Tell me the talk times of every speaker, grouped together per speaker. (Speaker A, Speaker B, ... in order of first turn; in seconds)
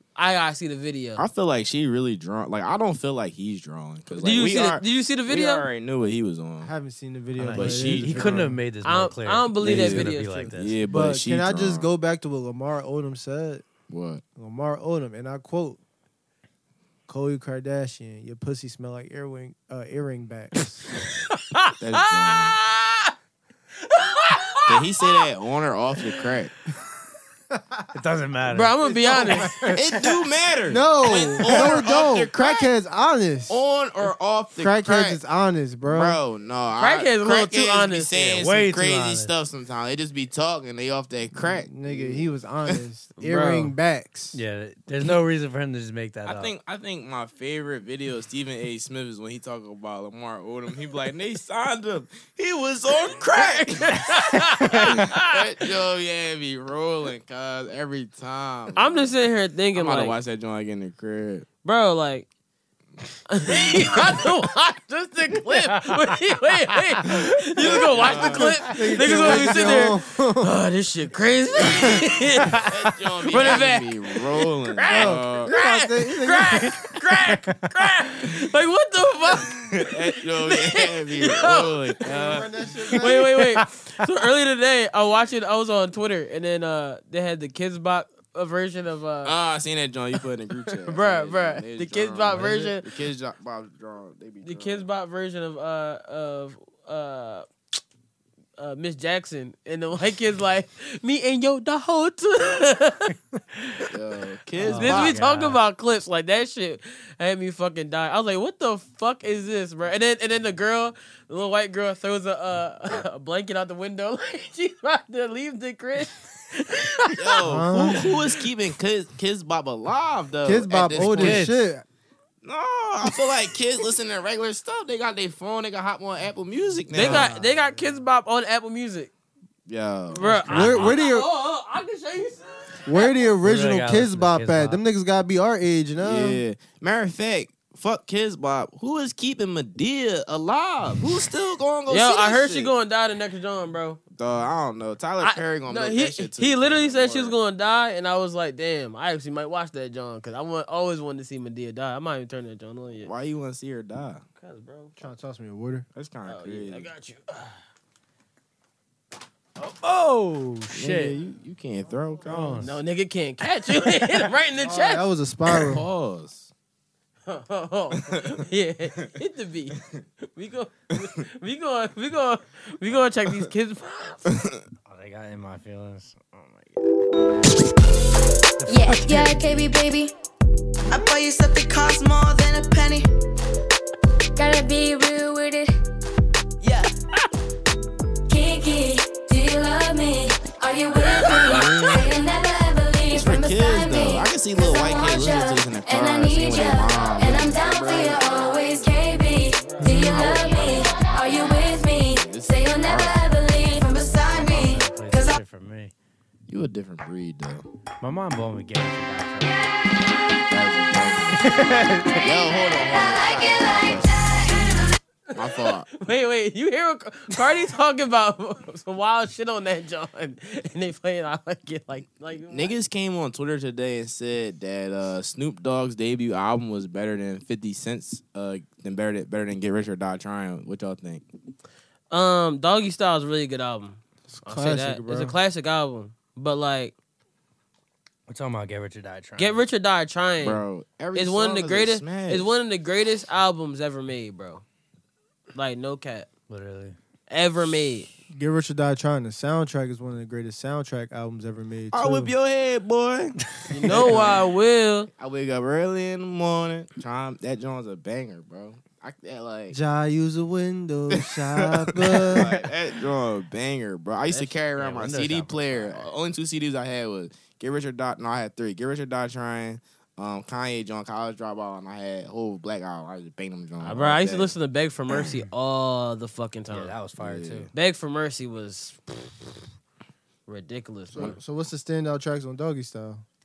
Speaker A: 0.1-1.2, 4.1-5.7, 8.8-10.5, 21.3-23.1, 23.8-25.2, 28.5-29.5, 36.8-38.4, 43.2-43.7, 53.3-55.3, 58.8-60.1, 61.6-62.3, 63.3-72.6, 73.3-74.1, 74.7-81.9, 83.0-89.3, 90.8-92.9, 94.4-97.4, 98.6-103.1, 104.6-117.3, 126.9-129.1, 130.1-133.3, 141.9-144.0, 145.2-153.1, 154.4-155.0, 156.2-157.6, 162.6-165.1, 167.3-174.3, 198.5-200.1, 215.3-222.7, 232.1-236.9, 239.4-240.6, 241.1-244.6, 245.5-246.3, 247.3-248.1, 253.7-255.1, 273.8-276.9, 277.7-279.6, 280.5-281.4
Speaker B: 1.2-6.7, 7.5-8.5, 9.6-11.9, 13.9-14.2, 21.8-22.6, 24.7-26.5, 29.7-32.7, 33.5-35.2, 35.9-42.8, 46.2-59.1, 59.7-61.5, 63.5-64.0, 67.6-68.7, 69.2-69.5, 72.5-75.5, 79.5-83.0, 89.2-94.9, 103.9-105.2, 117.1-121.5, 122.4-127.3, 129.7-130.3, 136.0-142.7, 144.1-147.3, 153.0-154.2, 155.9-156.9, 160.7-162.6, 165.5-166.5, 174.3-174.6, 191.3-192.1, 193.1-198.7, 199.9-203.4, 206.5-207.7, 210.5-214.5, 215.3-215.9, 222.5-231.2, 240.4-242.5, 251.9-254.4, 255.1-259.8, 261.1-274.5, 277.2-277.7
Speaker C: 6.6-8.6, 10.8-13.7, 14.3-15.8, 17.1-20.9, 27.5-27.9, 29.1-29.8, 30.7-33.6, 34.5-36.2, 41.4-44.4, 68.0-70.5, 74.9-76.8, 82.0-83.3, 117.4-118.1, 120.4-121.8, 126.9-128.0, 130.4-131.3, 132.8-136.4, 155.0-155.9, 164.6-165.8, 199.9-200.1, 234.3-235.4, 248.3-252.3, 259.7-262.6, 281.1-283.2
Speaker D: 7.4-10.8, 27.9-30.1, 38.1-39.3, 44.3-46.5, 104.6-105.6, 121.0-121.5, 130.2-130.9, 133.4-134.8, 159.6-161.1, 162.3-162.7, 174.9-176.8, 178.6-179.7, 204.3-205.9, 208.0-209.7, 211.4-212.2, 238.3-239.6, 246.5-247.0, 264.8-266.1, 276.7-277.7
Speaker E: 178.7-180.1, 184.4-185.7, 188.3-205.2, 212.9-214.0
Speaker F: 180.9-183.1, 186.6-186.9